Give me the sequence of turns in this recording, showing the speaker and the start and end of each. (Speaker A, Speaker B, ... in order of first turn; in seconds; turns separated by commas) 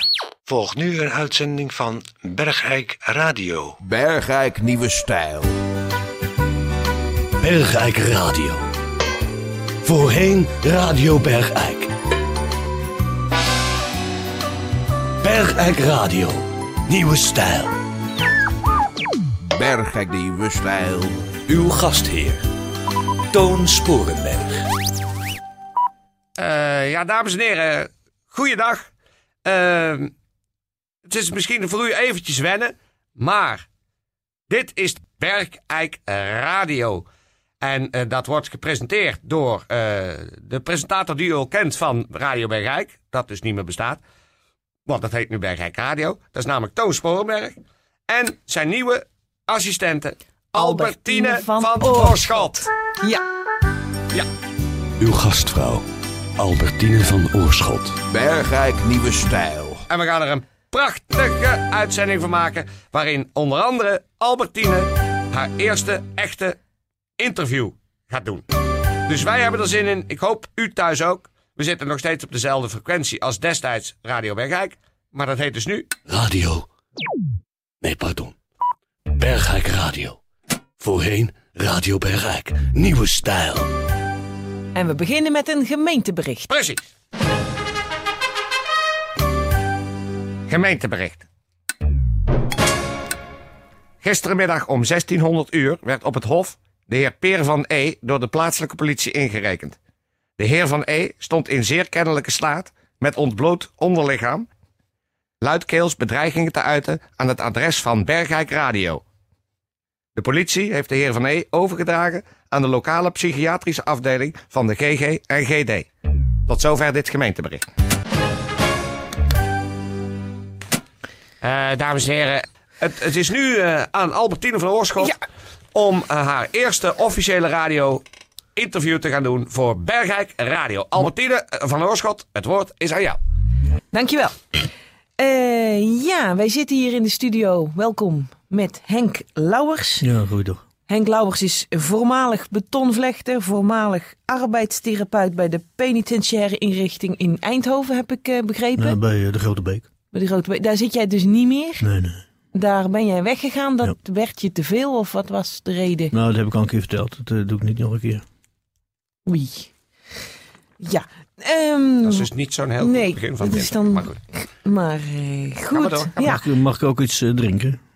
Speaker A: 0.5-3.8, Speaker B: 3.8-5.6, Speaker C: 7.4-8.7, Speaker C: 9.8-11.9, Speaker C: 15.2-17.8, Speaker B: 19.5-21.4, Speaker C: 21.5-22.4, Speaker C: 23.3-24.7, Speaker D: 26.4-28.9, Speaker D: 29.4-30.1, Speaker D: 31.1-33.6, Speaker D: 34.5-37.0, Speaker D: 37.6-44.0, Speaker D: 44.9-52.6, Speaker E: 50.5-53.2, Speaker C: 55.0-55.9, Speaker C: 56.4-58.0, Speaker B: 58.1-59.8, Speaker D: 59.9-66.6, Speaker D: 67.2-68.4, Speaker D: 69.0-76.0, Speaker C: 76.1-76.7, Speaker C: 77.8-78.3, Speaker C: 79.1-80.2, Speaker C: 80.8-83.7, Speaker E: 84.7-86.5, Speaker D: 86.5-86.8, Speaker D: 90.5-91.2, Speaker D: 94.0-99.8, Speaker D: 100.4-104.5, Speaker D: 105.4-109.0, Speaker D: 110.1-115.9, Speaker D: 116.5-117.6, Speaker D: 121.4-125.2, Speaker D: 125.7-128.0, Speaker D: 128.6-133.2, Speaker E: 133.9-134.4, Speaker E: 135.2-140.1, Speaker F: 140.0-140.6, Speaker E: 140.9-149.0, Speaker F: 148.8-149.8, Speaker E: 150.1-151.9, Speaker F: 151.8-152.2, Speaker E: 152.5-156.1, Speaker F: 156.1-158.2, Speaker E: 159.2-159.7, Speaker E: 160.8-166.4, Speaker D: 162.0-164.2, Speaker D: 165.7-166.2, Speaker F: 166.2-167.8